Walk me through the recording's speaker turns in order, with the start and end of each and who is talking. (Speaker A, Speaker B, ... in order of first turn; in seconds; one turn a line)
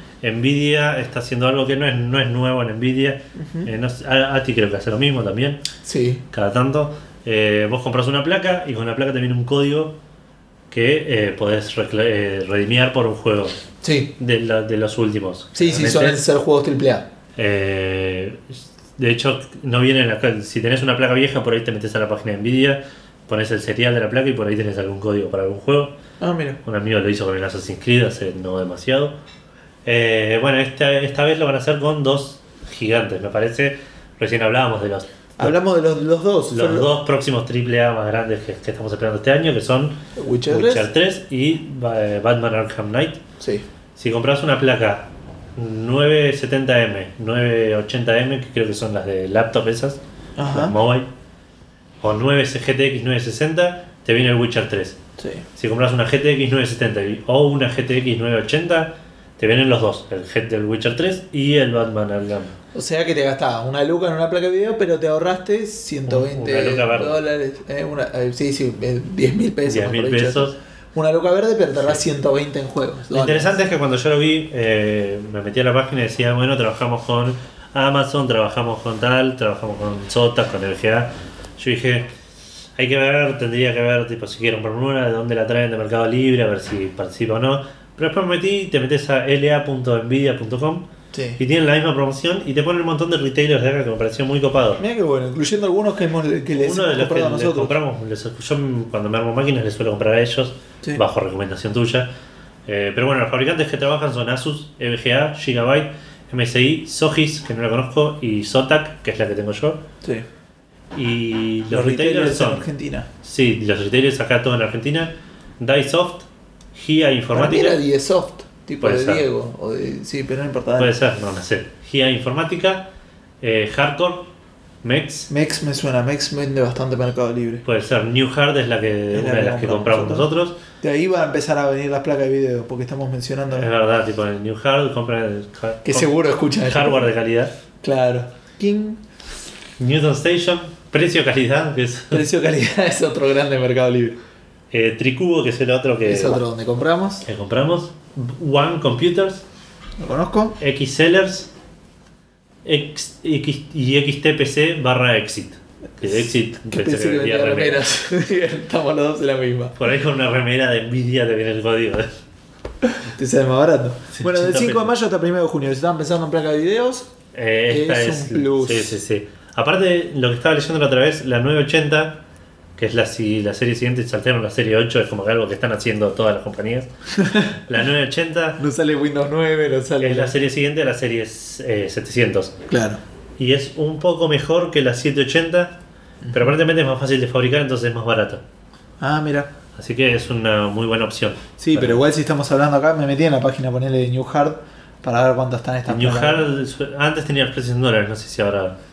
Speaker A: 0.2-5.6
Speaker B: 3.4-3.7
Speaker B: 5.8-6.2
Speaker A: 6.3-9.9
Speaker A: 10.7-13.6
Speaker B: 13.8-14.1
Speaker A: 14.2-16.2
Speaker B: 15.5-17.1
Speaker A: 17.4-26.0
Speaker B: 26.2-26.6
Speaker A: 26.6-29.2
Speaker A: 29.8-35.5
Speaker B: 35.4-36.9
Speaker A: 36.5-43.2
Speaker B: 40.1-40.9
Speaker B: 43.4-43.6
Speaker A: 44.0-51.1
Speaker B: 50.4-50.8
Speaker A: 52.0-55.0
Speaker B: 55.2-55.4
Speaker A: 55.5-62.5
Speaker B: 62.7-73.6
Speaker A: 66.1-67.2
Speaker A: 69.7-70.5
Speaker A: 73.1-82.1
Speaker A: 82.8-94.8
Speaker B: 91.1-91.4
Speaker B: 94.8-97.8
Speaker A: 96.6-102.1
Speaker A: 102.7-109.8
Speaker A: 110.9-112.7
Speaker B: 111.7-113.1
Speaker A: 113.2-117.8
Speaker B: 117.3-120.9
Speaker A: 118.8-119.2
Speaker A: 120.8-122.9
Speaker A: 123.4-124.3
Speaker A: 124.8-125.3
Speaker B: 125.3-127.6
Speaker A: 127.6-130.6
Speaker B: 129.1-130.3
Speaker B: 130.8-133.7
Speaker A: 133.5-136.1
Speaker B: 135.8-137.1
Speaker A: 136.6-137.5
Speaker B: 137.8-139.0
Speaker A: 139.8-142.2
Speaker B: 142.1-144.2
Speaker A: 144.7-146.4
Speaker B: 146.0-147.2
Speaker A: 147.2-149.4
Speaker B: 150.0-150.6
Speaker A: 150.6-151.5
Speaker A: 152.6-157.8
Speaker B: 156.1-159.8
Speaker A: 159.8-162.2
Speaker B: 162.8-167.1
Speaker A: 164.1-164.9
Speaker A: 167.3-172.2
Speaker B: 167.7-169.0
Speaker A: 172.8-176.9
Speaker B: 177.1-177.6
Speaker A: 177.5-178.6
Speaker B: 178.6-180.3
Speaker A: 180.0-182.6
Speaker B: 182.7-183.0
Speaker A: 183.4-185.8
Speaker B: 186.2-186.5
Speaker A: 186.3-188.4
Speaker B: 189.0-189.5
Speaker A: 189.7-192.0
Speaker B: 191.6-196.4
Speaker A: 195.9-198.8